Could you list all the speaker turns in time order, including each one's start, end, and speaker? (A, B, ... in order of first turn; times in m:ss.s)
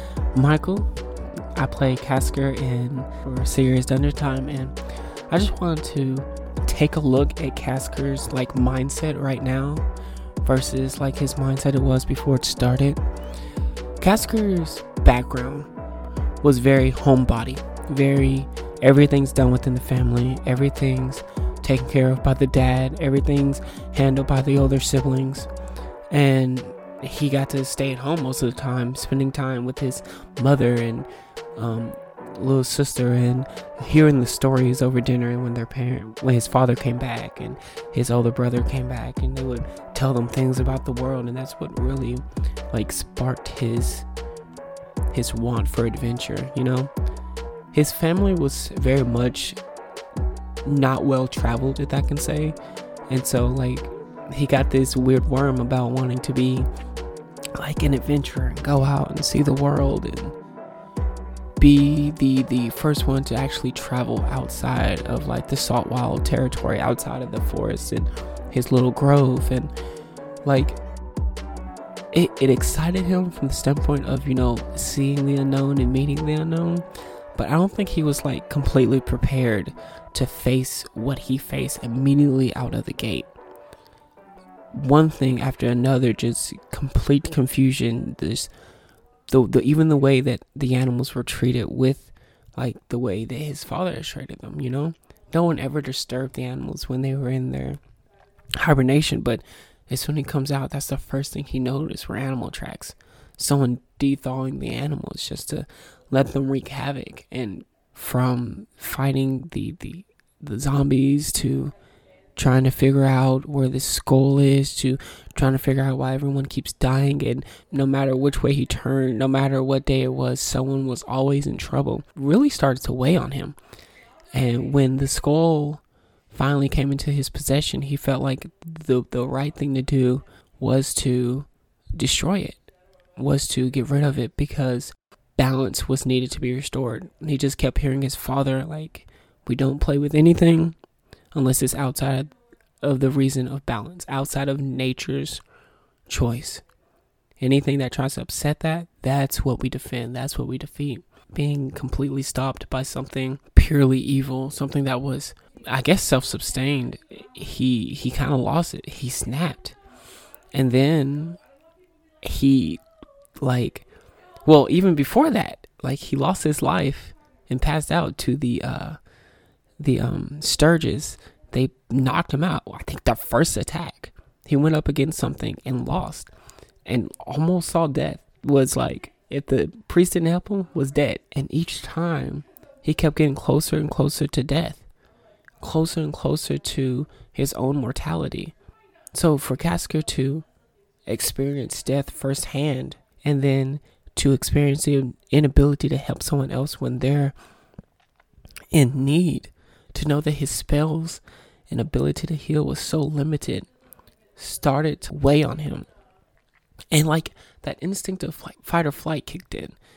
0:00.3-0:00.9 A
0:01.5-0:04.7 A
0:05.3-0:09.8 A
0:10.4-0:13.0 A
0:14.0-0:15.7 A
0:16.4-0:25.5 A
0:26.1-0:44.0 A
0:45.1-0:46.9 A
0:47.7-0:49.6 A
0:50.6-0:52.6 A
0:53.1-0:56.7 A
0:57.5-1:00.3 A
1:01.6-1:09.7 A
1:10.4-1:10.8 A
1:12.1-1:23.3 A
1:24.7-1:28.5 A
1:29.3-1:37.8 A
1:38.6-1:51.7 A
1:52.4-2:03.6 A
2:04.3-2:20.8 A
2:21.3-2:25.4 A
2:26.1-2:26.6 A
2:27.4-2:39.8 A
2:40.5-2:41.4 A
2:42.2-2:42.8 A
2:43.4-2:43.8 A
2:44.4-2:49.0 A
2:49.8-2:56.3 A
2:56.8-3:04.8 A
3:05.6-3:08.5 A
3:09.1-3:10.4 A
3:11.1-3:17.3 A
3:18.7-3:23.7 A
3:24.4-3:25.9 A
3:26.9-3:29.7 A